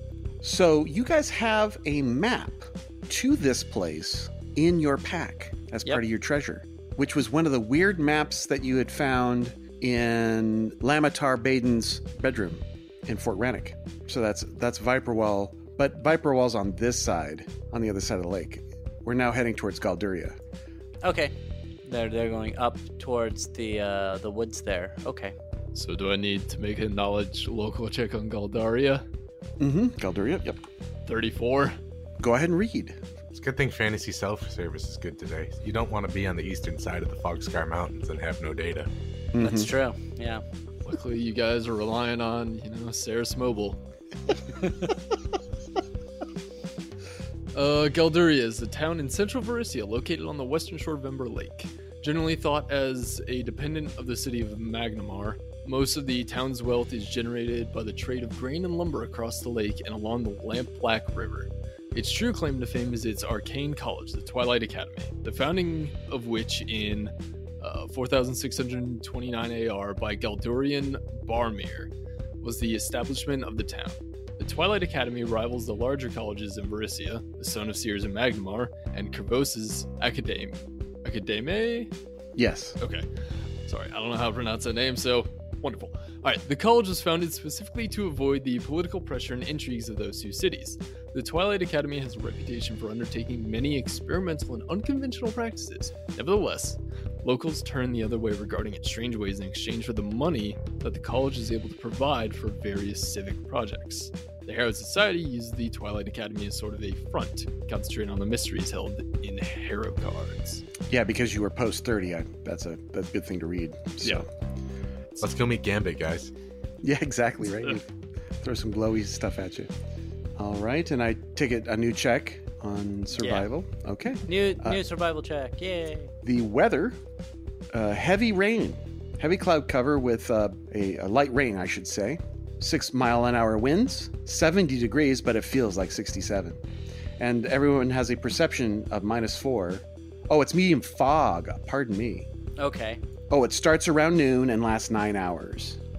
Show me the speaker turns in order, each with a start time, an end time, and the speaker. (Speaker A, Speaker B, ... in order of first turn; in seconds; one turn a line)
Speaker A: 0.4-20.4
Speaker B: 21.0-21.3
Speaker B: 21.8-25.3
Speaker C: 25.8-29.0
Speaker A: 29.6-30.6
Speaker C: 31.1-31.8
Speaker A: 32.2-33.0
Speaker D: 33.3-38.9
Speaker A: 39.3-39.7
Speaker B: 39.4-40.4
Speaker C: 40.8-43.8
Speaker C: 47.5-81.9
Speaker A: 82.4-82.8
Speaker C: 82.8-83.1
Speaker C: 83.7-110.7
Speaker A: 110.9-114.3
Speaker D: 115.1-116.3
Speaker A: 116.8-119.7
Speaker A: 120.4-124.8
Speaker B: 123.2-123.5
Speaker B: 124.2-126.1
Speaker A: 126.2-127.0
Speaker A: 127.7-136.6
Speaker A: 137.2-142.3
Speaker B: 142.6-143.0
Speaker A: 143.3-145.8